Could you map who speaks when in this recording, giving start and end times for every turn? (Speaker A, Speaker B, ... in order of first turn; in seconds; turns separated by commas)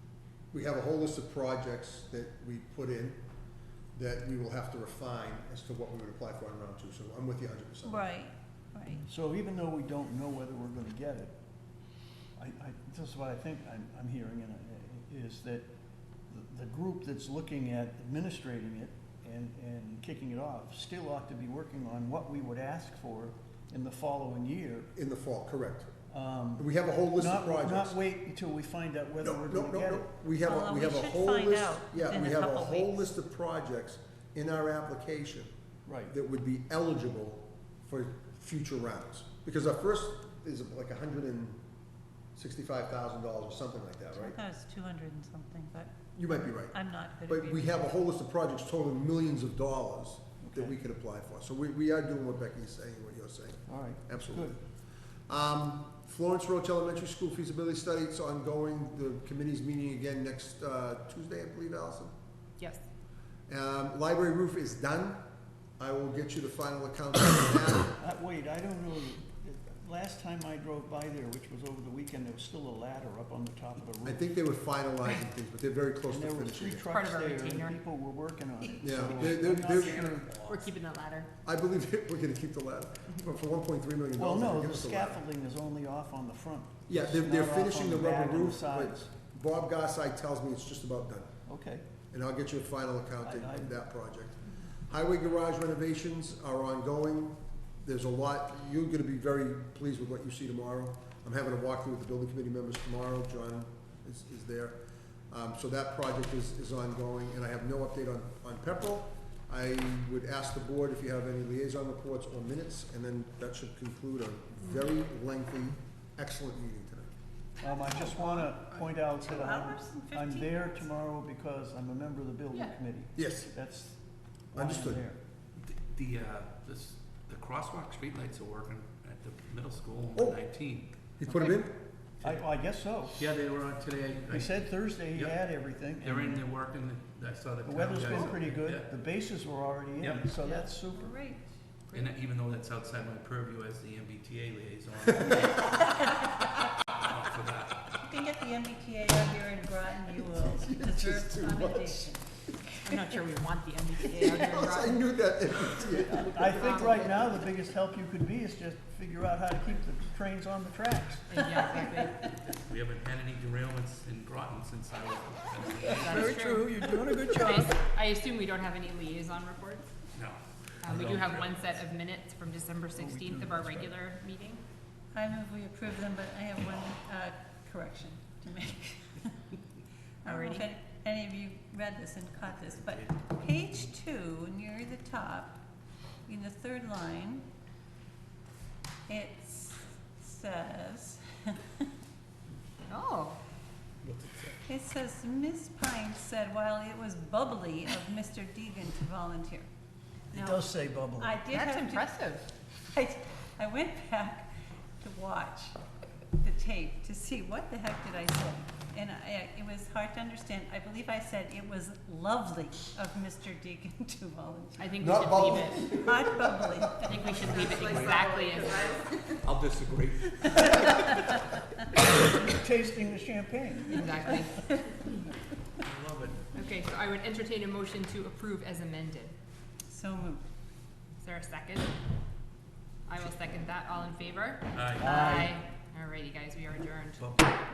Speaker A: 0.5-3.2, Speaker A: 3.9-8.1, Speaker B: 7.8-9.1, Speaker C: 9.1-11.3, Speaker C: 12.4-15.7, Speaker C: 16.3-24.9, Speaker A: 24.9-25.9, Speaker C: 26.1-30.1, Speaker A: 26.6-28.0, Speaker A: 29.2-35.5, Speaker B: 30.4-33.1, Speaker C: 35.9-36.2, Speaker A: 36.1-41.6, Speaker A: 42.4-44.4, Speaker B: 44.1-47.9, Speaker A: 46.1-54.5, Speaker C: 50.4-50.8, Speaker C: 53.7-54.6, Speaker A: 55.3-62.1, Speaker A: 63.5-65.2, Speaker A: 65.8-67.9, Speaker C: 68.0-74.2, Speaker A: 74.0-76.9, Speaker C: 76.1-80.3, Speaker D: 76.9-77.8, Speaker A: 78.8-80.2, Speaker E: 79.2-80.7, Speaker D: 80.5-81.3, Speaker A: 81.4-85.2, Speaker C: 84.2-89.1, Speaker A: 86.9-91.3, Speaker C: 91.5-91.8, Speaker A: 92.1-104.8, Speaker C: 93.2-93.8, Speaker A: 105.3-117.1, Speaker C: 117.6-124.0, Speaker B: 117.6-120.9, Speaker A: 123.2-123.5, Speaker C: 124.5-125.2, Speaker A: 124.6-125.0, Speaker E: 125.6-131.0, Speaker A: 131.2-131.8, Speaker C: 132.2-133.3, Speaker E: 133.1-135.4, Speaker C: 134.3-136.4, Speaker E: 136.0-138.9, Speaker C: 137.6-141.2, Speaker E: 140.0-140.3, Speaker B: 140.4-141.5, Speaker E: 141.9-148.0, Speaker B: 148.0-152.3, Speaker A: 150.2-152.1, Speaker D: 152.8-155.0, Speaker A: 154.2-157.3, Speaker C: 156.1-161.4, Speaker D: 156.5-157.1, Speaker D: 161.3-162.2, Speaker E: 162.5-166.5, Speaker C: 165.8-167.7, Speaker D: 166.0-169.9, Speaker E: 170.2-171.6, Speaker D: 170.8-174.6, Speaker C: 173.0-173.9, Speaker B: 175.1-179.4, Speaker B: 180.2-185.6, Speaker D: 180.2-180.7, Speaker B: 186.2-187.5, Speaker B: 189.1-191.8, Speaker D: 192.9-193.4, Speaker E: 194.0-194.6, Speaker B: 194.7-199.7, Speaker C: 200.3-201.4, Speaker B: 200.3-202.2, Speaker D: 201.5-202.5, Speaker B: 202.9-205.8, Speaker B: 206.4-217.3, Speaker D: 214.8-215.9, Speaker A: 215.0-216.5, Speaker D: 217.0-219.3, Speaker E: 217.3-218.5, Speaker E: 219.4-221.4, Speaker C: 222.2-224.5, Speaker D: 223.9-224.7, Speaker E: 225.8-226.5, Speaker D: 226.5-229.3, Speaker B: 229.9-230.4, Speaker D: 231.2-231.9, Speaker D: 233.1-237.3, Speaker E: 234.7-235.2, Speaker C: 235.0-235.6, Speaker E: 237.2-237.6